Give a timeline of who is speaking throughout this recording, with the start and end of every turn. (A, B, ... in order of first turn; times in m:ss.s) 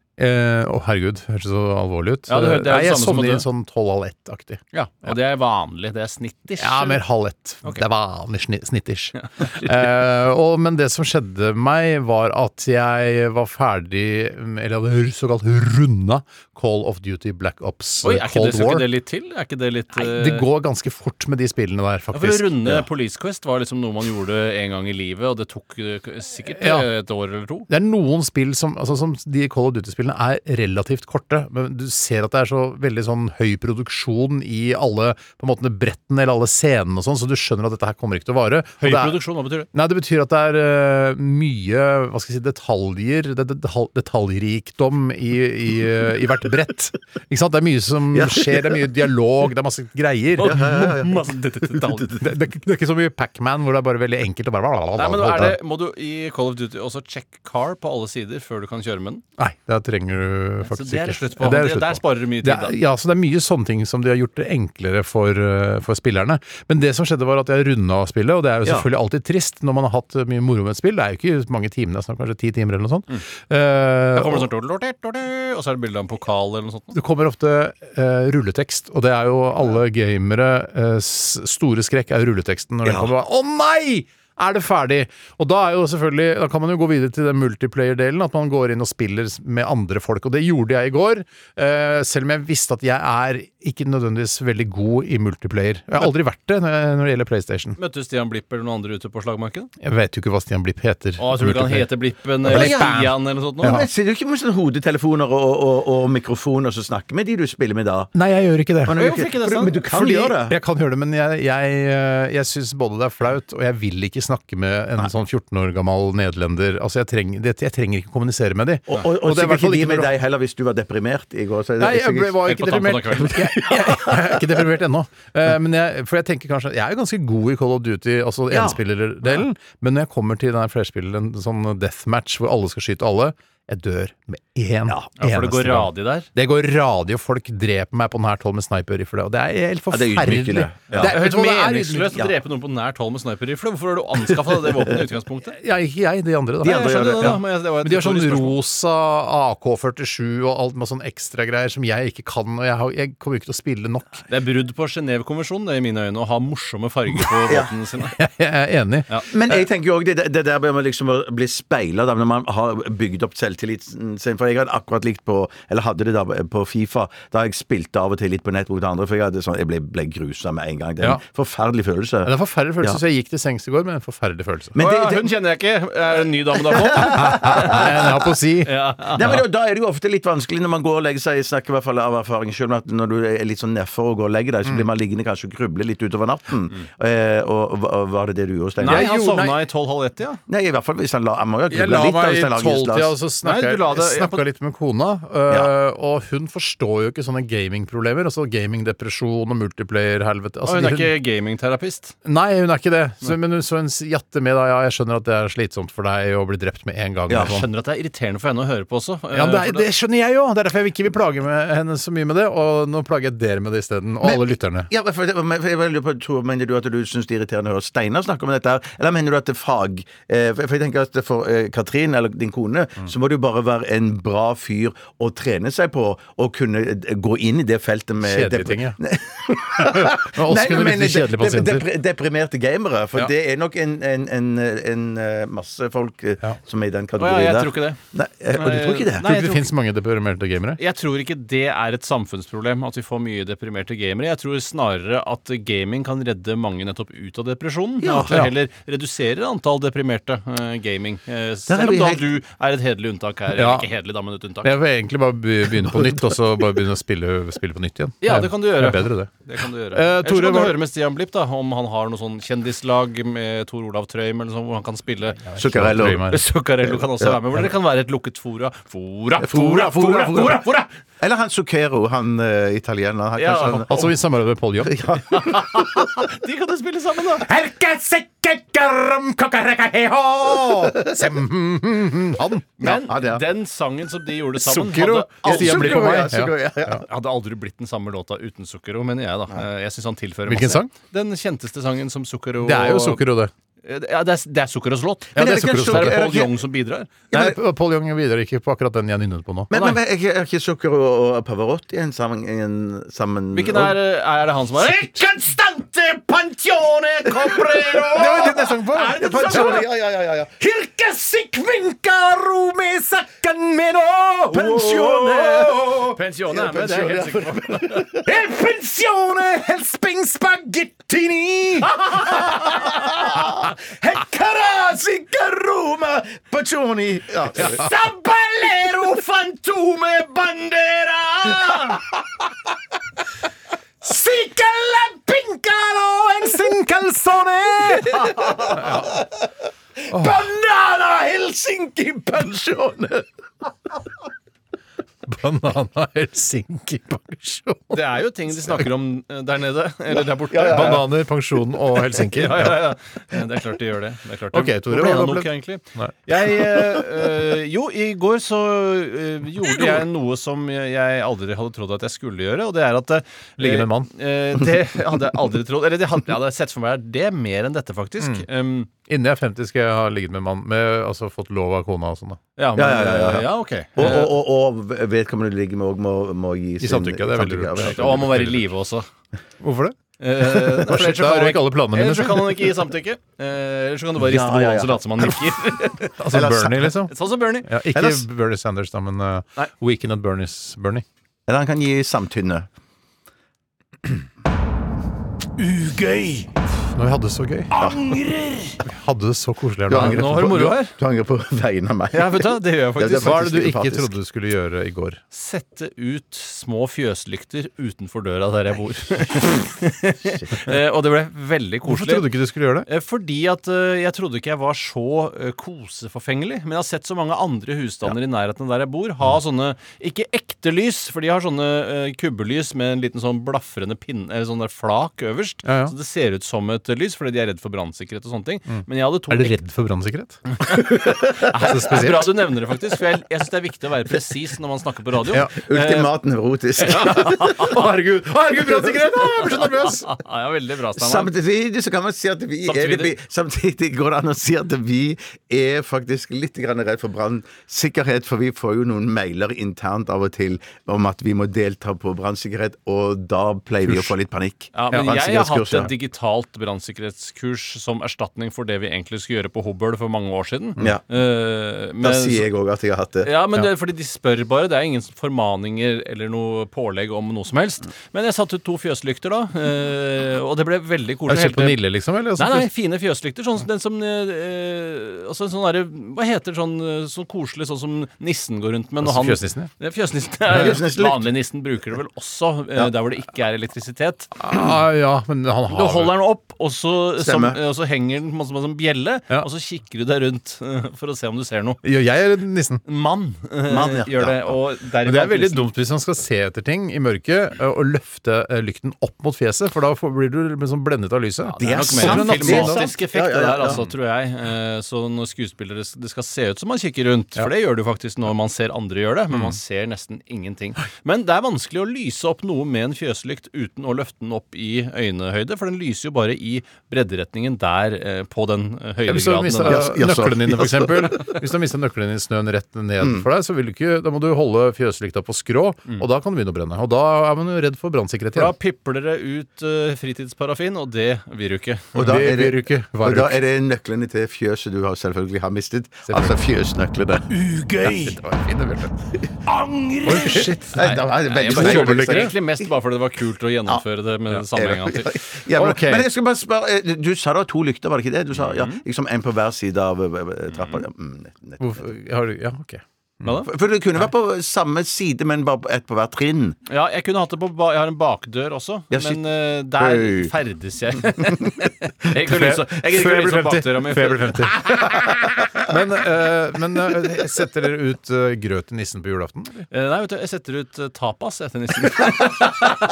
0:00.2-0:05.2 A
0:02.3-0:03.5 B
0:04.7-0:07.0 B
0:06.6-0:18.9 A
0:09.2-0:09.9 B
0:18.0-0:20.5 B
0:19.9-0:22.9 A
0:22.1-0:27.7 B
0:26.5-0:26.9 A
0:27.7-0:39.2 A
0:38.8-0:39.7 B
0:39.7-0:50.9 A
0:48.1-0:48.8 C
0:50.4-0:52.2 B
0:50.4-0:52.1 C
0:52.2-0:55.6 A
0:55.0-0:59.2 B
0:59.4-1:14.5 A
1:00.6-1:02.8 B
1:14.1-1:17.0 B
1:16.9-1:37.8 A
1:22.8-1:23.1 C
1:37.8-1:39.7 B
1:39.8-1:41.9 A
1:41.2-1:43.8 B
1:42.4-1:43.9 A
1:42.4-1:43.1 C
1:43.6-1:48.1 C
1:48.1-1:49.0 A
1:48.8-1:50.6 C
1:49.0-1:49.8 B
1:49.8-2:00.1 A
1:58.9-2:02.5 C
2:01.8-2:22.3 A
2:02.4-2:03.6 B
2:03.4-2:04.2 C
2:08.5-2:08.8 C
2:15.2-2:16.3 B
2:19.9-2:21.1 C
2:20.9-2:25.6 B
2:25.5-2:34.2 A
2:26.6-2:27.4 C
2:26.6-2:28.6 B
2:34.3-2:38.2 B
2:37.5-2:37.7 C
2:38.1-2:39.6 A
2:39.3-2:53.0 C
2:52.2-2:54.8 A
2:54.7-2:55.3 C
2:54.8-2:58.1 B
2:56.7-2:57.9 C
2:57.1-2:59.4 A
2:58.6-2:59.4 B
2:59.2-3:09.1 C
3:08.8-3:10.4 B
3:08.8-3:09.6 A
3:10.5-3:13.2 C
3:11.7-3:21.1 A
3:13.4-3:14.5 B
3:20.6-3:22.2 B
3:22.2-3:27.7 A
3:27.3-3:27.6 C
3:27.4-3:29.9 B
3:29.3-3:34.9 A
3:34.2-3:59.3 C
3:48.2-3:49.0 A
3:49.8-3:51.9 A
3:57.2-3:58.0 B
3:58.5-3:59.7 B
3:59.2-4:00.8 A
4:00.8-4:14.7 B
4:08.0-4:08.4 C
4:08.3-4:08.5 A
4:11.7-4:12.4 C
4:13.5-4:13.9 A
4:14.6-4:19.3 A
4:18.2-4:30.9 B
4:19.9-4:20.8 A
4:25.4-4:26.4 A
4:25.6-4:26.3 C
4:26.9-4:27.7 C
4:29.4-4:30.6 C
4:31.2-4:34.1 C
4:33.4-4:33.9 B
4:33.9-4:35.0 A
4:34.8-4:36.1 C
4:35.3-4:37.5 B
4:37.4-4:42.9 A
4:42.8-4:46.2 B
4:42.8-4:43.4 C
4:44.6-4:47.0 A
4:45.4-4:47.1 C
4:47.0-4:53.2 B
4:50.5-4:50.9 A
4:52.6-4:53.5 A
4:53.8-4:57.2 B
4:55.4-4:56.3 A
4:55.4-4:56.6 C
4:57.3-4:57.6 C
4:57.3-5:00.0 A
4:59.7-5:04.0 C
5:03.5-5:09.9 B
5:07.9-5:08.6 C
5:08.1-5:09.9 A
5:09.1-5:10.6 C
5:10.6-5:16.2 A
5:14.5-5:18.4 C
5:16.0-5:18.1 B
5:18.2-5:22.9 A
5:22.0-5:27.9 C
5:27.5-5:32.0 A
5:34.0-5:39.2 A
5:38.0-5:39.2 C
5:40.1-5:43.3 C
5:40.1-5:40.5 A
5:45.2-5:48.9 A
5:47.9-5:51.0 B
5:50.5-5:51.0 C
5:50.6-5:52.8 A
5:52.3-6:08.9 B
5:54.5-5:56.1 A
6:03.6-6:04.1 A
6:08.2-6:08.5 A
6:09.1-6:12.4 A
6:12.6-6:14.3 B
6:12.8-6:18.5 C
6:16.8-6:18.6 A
6:17.8-6:19.1 B
6:19.6-6:22.7 A
6:20.2-6:26.2 B
6:24.2-6:25.7 C
6:26.2-6:31.0 A
6:26.3-6:26.9 C
6:27.1-6:27.7 B
6:27.9-6:28.2 C
6:31.5-6:32.7 C
6:35.6-6:36.5 B
6:36.9-6:37.7 A
6:37.8-6:38.8 B
6:37.8-6:38.1 C
6:38.8-6:40.7 A
6:39.9-6:44.1 C
6:39.9-6:41.0 B
6:42.1-6:43.5 B
6:43.1-6:45.2 A
6:45.3-6:52.3 B
6:51.9-6:52.9 A
6:52.9-7:09.5 B
7:05.6-7:06.0 A
7:08.7-7:10.4 A
7:10.6-7:16.1 B
7:11.4-7:12.5 A
7:15.3-7:15.6 A
7:15.6-7:17.7 C
7:16.8-7:17.8 B
7:17.0-7:20.1 A
7:19.4-7:21.3 B
7:21.0-7:35.9 C
7:22.7-7:23.1 B
7:33.8-7:34.1 A
7:34.7-7:42.5 B
7:42.0-7:43.3 C
7:43.2-7:51.8 B
7:51.3-7:52.7 A
7:52.4-8:04.3 B
7:59.0-7:59.7 A
8:00.5-8:01.3 C
8:04.4-8:06.2 A
8:05.7-8:11.8 B
8:07.2-8:07.6 C
8:11.8-8:12.8 A
8:12.9-8:15.7 B
8:13.7-8:14.5 C
8:15.0-8:22.9 A
8:21.5-8:39.9 B
8:21.6-8:23.8 C
8:29.3-8:29.6 A
8:39.1-8:48.5 A
8:39.6-8:41.3 C
8:43.0-8:43.3 C
8:48.4-8:52.1 B
8:52.0-8:53.4 A
8:52.0-8:57.3 C
8:56.1-8:56.4 A
8:57.3-8:58.2 B
8:57.8-8:58.9 A
8:59.5-9:05.1 B
9:00.0-9:02.3 A
9:00.3-9:02.6 C
9:04.5-9:11.8 C
9:05.5-9:06.1 A
9:08.4-9:08.8 B
9:10.5-9:10.8 B
9:11.6-9:13.4 A
9:13.2-9:13.5 B
9:13.4-9:16.6 C
9:16.7-9:24.6 B
9:18.9-9:19.2 C
9:19.8-9:20.3 C
9:22.2-9:29.7 A
9:29.7-9:32.6 B